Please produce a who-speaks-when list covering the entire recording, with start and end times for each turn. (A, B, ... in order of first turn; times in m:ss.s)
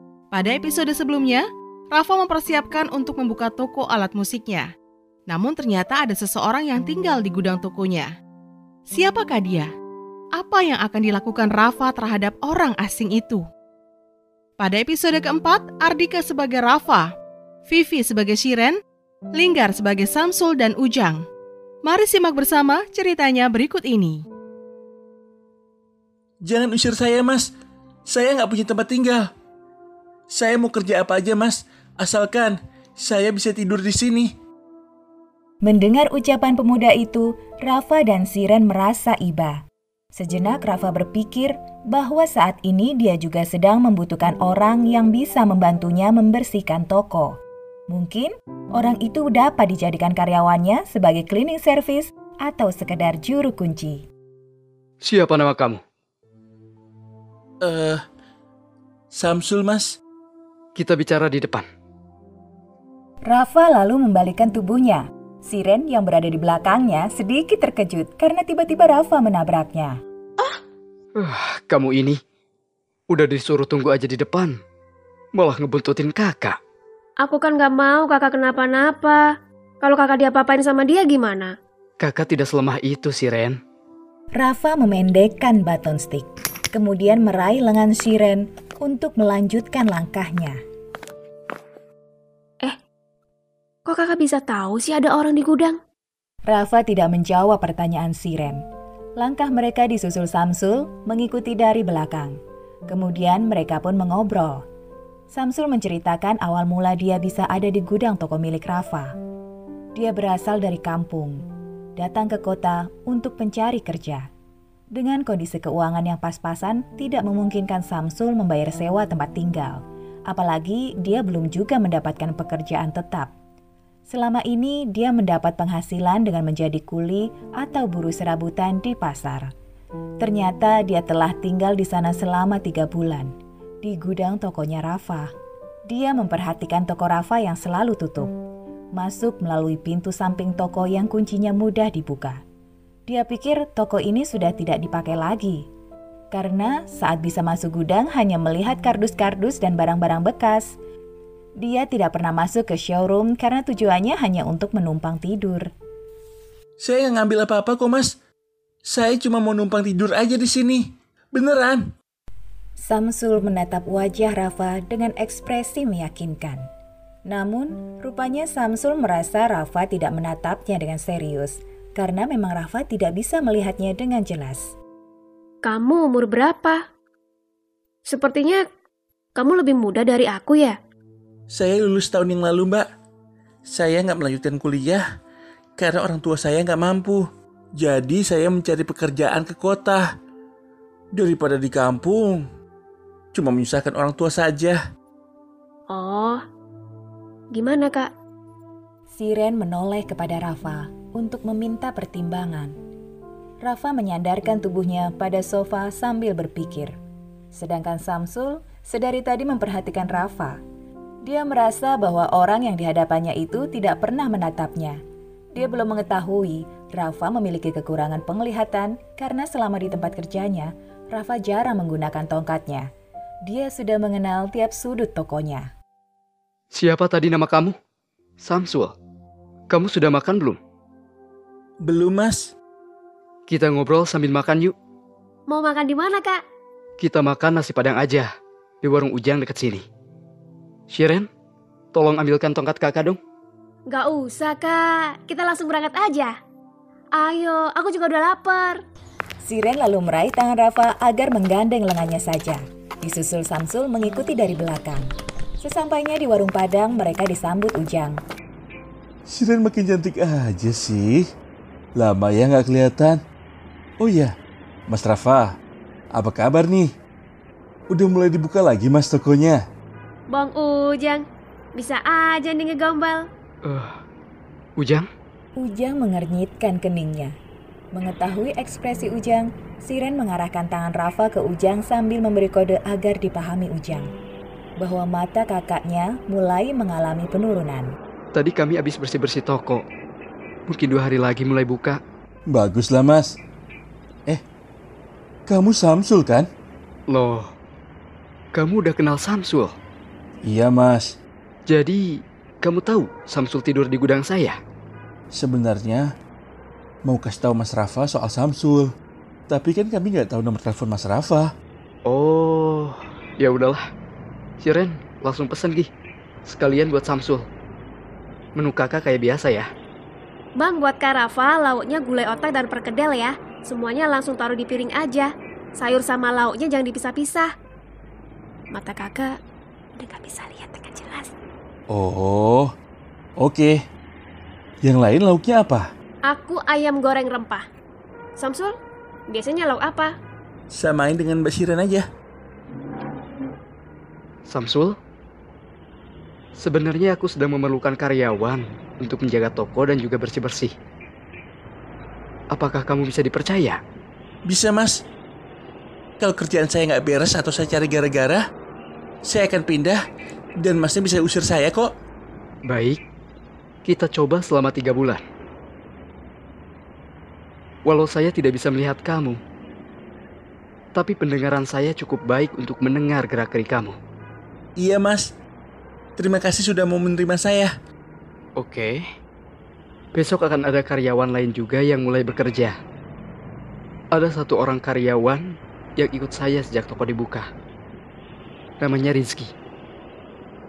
0:00.3-0:04.7 A
0:05.3-0:08.1 A
0:08.9-0:09.7 A
0:10.4-0:13.4 A
0:14.6-0:17.1 A
0:17.7-0:18.8 A
0:19.3-0:21.2 A
0:21.8-0:24.2 A
0:26.4-0:27.5 B
0:28.1-0:29.3 B
0:30.3-0:34.3 B
0:35.6-0:39.6 C
0:40.1-0:47.3 C
0:47.9-0:54.0 C
0:55.0-0:55.8 D
0:57.6-0:58.0 B
0:59.1-1:00.0 B
1:00.7-1:01.6 D
1:03.2-1:09.9 C
1:11.2-1:12.2 D
1:13.1-1:14.6 D
1:15.3-1:16.6 D
1:17.2-1:21.6 E
1:22.0-1:23.6 D
1:24.3-1:30.6 C
1:33.8-1:35.8 E
1:36.5-1:38.6 C
1:39.2-1:42.4 C
1:42.9-1:44.6 C
1:45.3-1:49.1 C
1:50.0-1:51.4 C
1:52.0-1:54.3 C
1:54.9-2:03.3 C
2:04.1-2:09.5 C
2:10.2-2:15.3 C
2:15.9-2:18.3 C
2:19.0-2:22.4 C
2:23.1-2:25.6 C
2:26.3-2:30.8 C
2:31.6-2:35.7 C
2:36.8-2:38.1 B
2:38.9-2:41.8 B
2:42.8-2:46.6 C
2:47.3-2:54.7 C
2:55.6-2:56.8 E
2:58.1-2:58.6 E
2:59.3-3:00.8 E
3:01.5-3:02.8 B
3:03.7-3:05.0 B
3:05.8-3:07.2 B
3:07.8-3:10.0 B
3:11.1-3:12.4 B
3:13.3-3:14.8 B
3:15.9-3:16.4 E
3:17.5-3:18.1 E
3:19.1-3:22.7 C
3:23.6-3:27.0 C
3:27.5-3:30.6 C
3:31.2-3:35.0 C
3:35.5-3:42.9 C
3:43.5-3:45.7 C
3:46.7-3:47.8 D
3:48.4-3:49.0 D
3:49.7-3:50.6 D
3:51.8-3:52.5 B
3:53.5-3:54.7 D
3:55.5-3:56.4 E
3:57.0-3:58.3 D
3:58.8-3:59.8 D
4:00.9-4:01.3 D
4:01.9-4:03.2 D
4:03.9-4:06.3 E
4:07.2-4:08.8 E
4:09.4-4:15.1 C
4:15.6-4:18.2 C
4:19.3-4:21.2 B
4:22.0-4:23.2 B
4:24.0-4:24.3 B
4:24.9-4:25.5 B
4:26.1-4:26.9 B
4:27.9-4:29.6 B
4:30.3-4:33.3 E
4:33.6-4:33.9 D
4:34.8-4:35.1 D
4:35.6-4:37.3 C
4:37.9-4:44.1 C
4:44.8-4:47.9 C
4:48.3-4:49.8 D
4:50.7-4:52.0 D
4:52.5-4:53.4 B
4:55.5-4:56.5 B
4:57.1-4:57.5 D
4:58.5-4:59.8 D
5:00.4-5:01.2 B
5:01.7-5:04.6 D
5:05.3-5:06.1 B
5:07.0-5:08.9 B
5:09.5-5:11.5 B
5:12.0-5:13.8 D
5:14.6-5:15.9 D
5:16.5-5:17.5 D
5:18.6-5:19.6 D
5:20.6-5:27.5 E
5:28.7-5:29.4 E
5:30.0-5:31.3 E
5:31.9-5:32.7 B
5:33.4-5:33.8 B
5:34.8-5:35.9 B
5:36.2-5:37.6 E
5:38.4-5:38.8 E
5:39.3-5:40.2 E
5:40.7-5:42.0 B
5:44.5-5:45.0 D
5:46.6-5:50.7 D
5:52.5-5:53.8 D
5:54.5-5:55.0 B
5:56.2-5:58.4 B
5:59.2-6:00.0 B
6:00.6-6:01.9 B
6:02.7-6:03.0 D
6:03.8-6:05.2 D
6:07.8-6:09.4 D
6:10.9-6:14.0 D
6:14.8-6:15.2 B
6:16.2-6:17.7 B
6:18.6-6:19.0 D
6:20.1-6:22.8 D
6:24.1-6:27.5 D
6:28.8-6:29.5 D